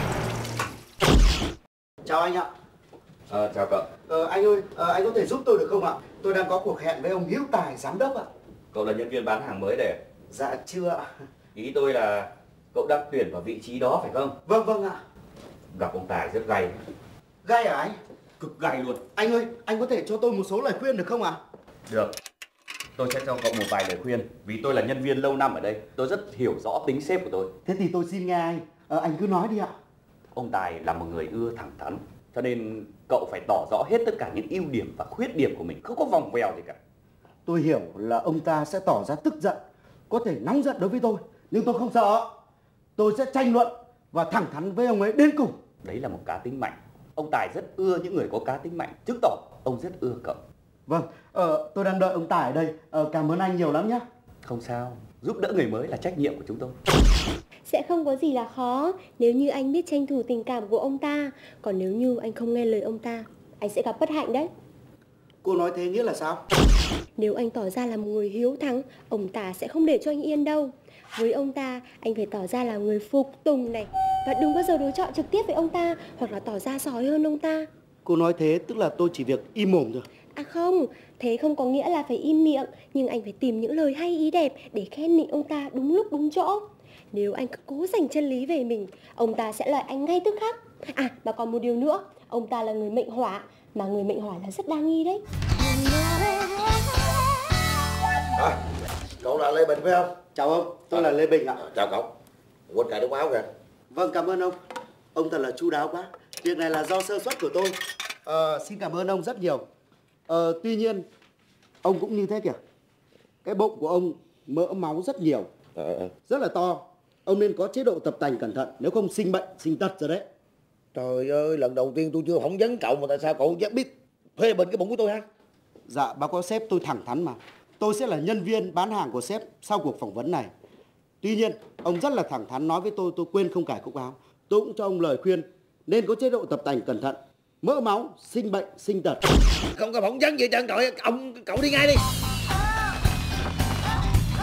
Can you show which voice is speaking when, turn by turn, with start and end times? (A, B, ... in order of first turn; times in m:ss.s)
0:02.0-0:02.5 A
0:03.3-0:03.9 B
0:04.1-0:08.3 A
0:08.7-0:10.0 B
0:10.3-0:11.1 A
0:11.6-0:14.4 B
0:14.4-0:15.0 A
0:15.7-0:16.8 B
0:17.4-0:18.0 A
0:18.4-0:19.0 B
0:19.2-0:21.4 A
0:21.9-0:22.1 B
0:23.0-0:27.5 B
0:27.6-0:29.7 A
0:30.4-0:36.8 B
0:37.5-0:42.3 A
0:43.0-0:45.6 A
0:45.8-0:50.4 B
0:50.9-0:54.0 A
0:54.4-0:56.8 B
0:57.7-1:04.5 C
1:05.4-1:06.4 A
1:07.2-1:17.7 C
1:18.0-1:20.1 A
1:20.3-1:35.2 C
1:39.2-1:40.2 D
1:40.3-1:41.6 A
1:41.6-1:42.1 D
1:42.7-1:43.5 D
1:43.9-1:44.6 A
1:45.1-1:49.7 A
1:50.3-1:51.1 A
1:51.8-1:52.6 A
1:53.4-1:55.5 A
1:55.8-1:56.1 D
1:56.3-2:00.3 A
2:00.9-2:05.2 D
2:05.9-2:10.5 A
2:11.2-2:19.2 A
2:19.7-2:22.0 D